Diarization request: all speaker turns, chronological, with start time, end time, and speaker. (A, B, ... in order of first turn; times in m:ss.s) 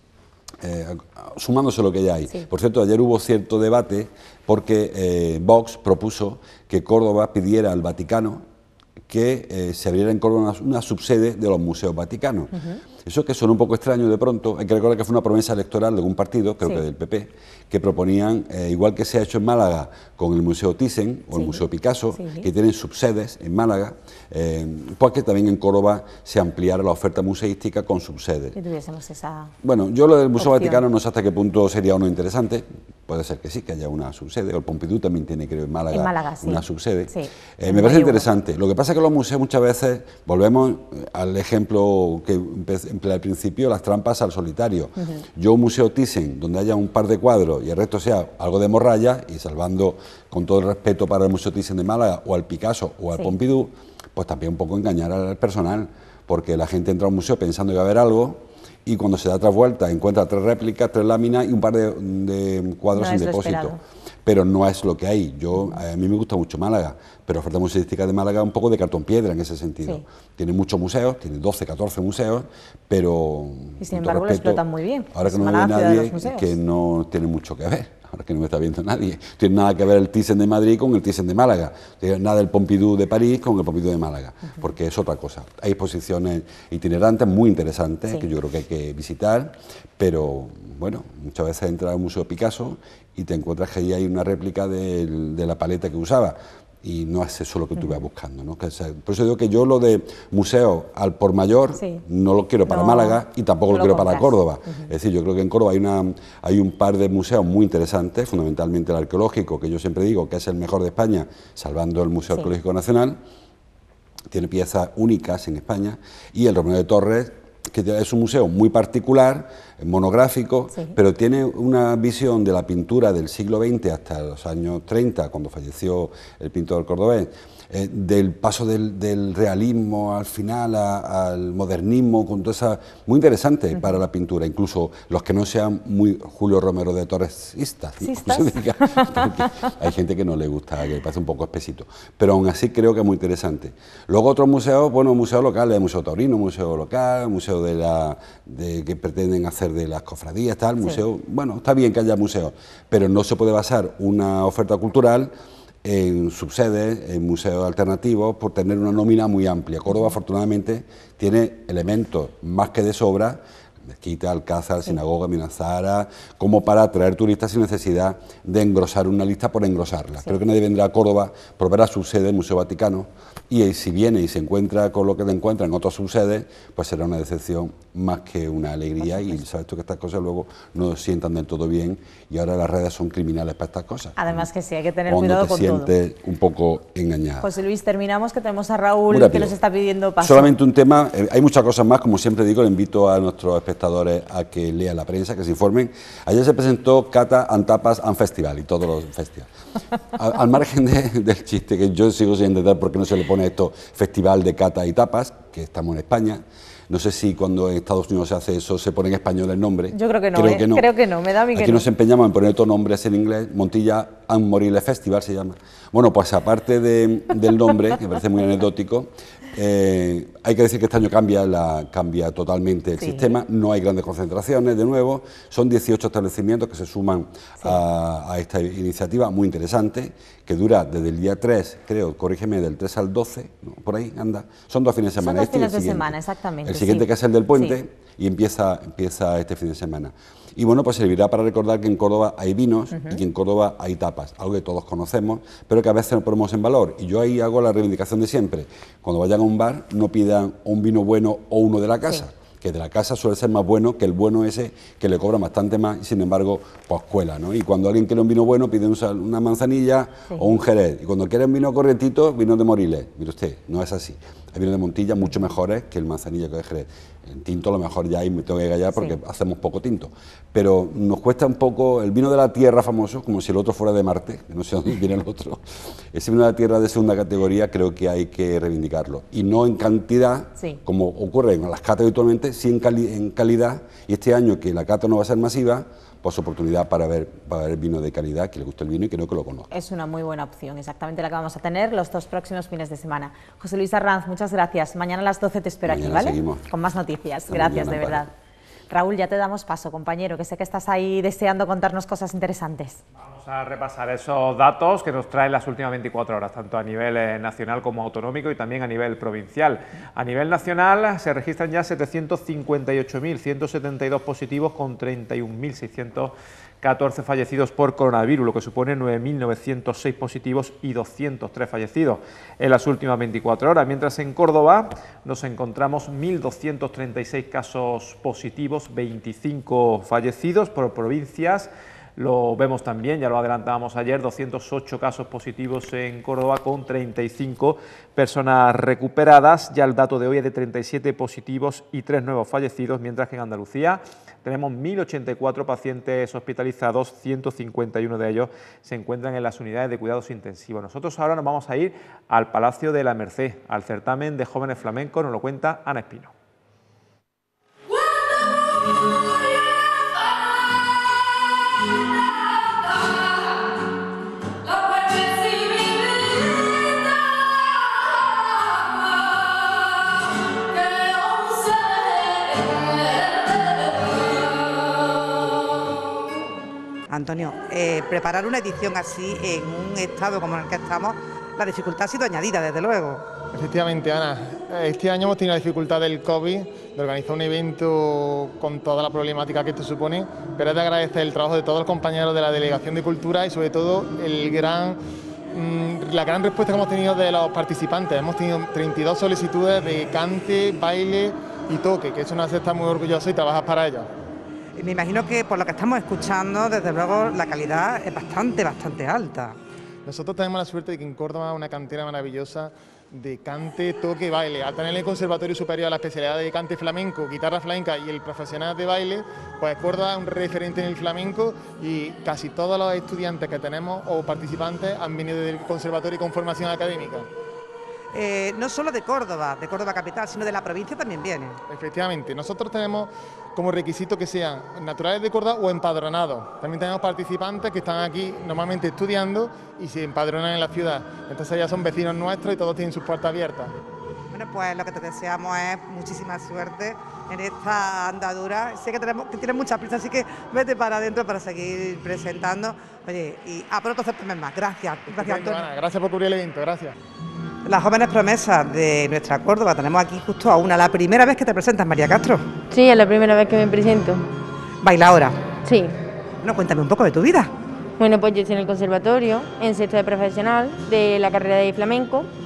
0:00.6-0:08.4 A
0:09.1-0:12.5 A
0:12.5-0:12.8 B
0:13.0-0:28.6 A
0:21.3-0:21.6 B
0:22.2-0:22.5 B
0:28.5-0:29.5 B
0:29.6-1:14.6 A
0:30.4-0:30.8 B
0:35.9-0:38.3 B
0:45.0-0:45.3 B
1:02.9-1:03.8 B
1:13.8-1:16.5 B
1:15.1-1:53.2 A
1:37.8-1:38.1 B
1:41.8-1:42.0 B
1:42.7-1:44.9 B
1:54.3-2:35.3 A
2:18.0-2:19.6 B
2:35.8-3:04.5 A
2:59.1-2:59.4 B
3:04.2-3:05.9 B
3:05.1-3:07.5 A
3:07.4-3:10.5 B
3:09.1-3:09.6 A
3:10.2-3:19.5 A
3:20.2-3:30.9 A
3:29.9-3:31.8 B
3:31.5-4:49.7 A
3:43.0-3:43.4 B
3:55.2-3:57.8 B
4:02.9-4:03.2 B
4:49.7-4:58.3 B
4:55.9-4:56.7 A
4:57.5-4:58.3 A
4:58.9-5:03.0 B
5:03.2-5:56.3 C
6:17.1-6:23.3 D
6:23.5-6:35.0 E
6:35.5-6:44.1 E
6:44.8-6:49.6 D
6:50.0-7:07.3 E
7:08.1-7:11.6 D
7:11.7-7:23.7 E
7:24.3-7:35.7 D
7:35.1-7:37.0 E
7:37.6-7:42.4 D
7:42.7-7:44.3 F
7:44.8-7:45.4 D
7:45.6-7:45.9 F
7:46.4-7:47.5 D
7:48.0-7:52.3 F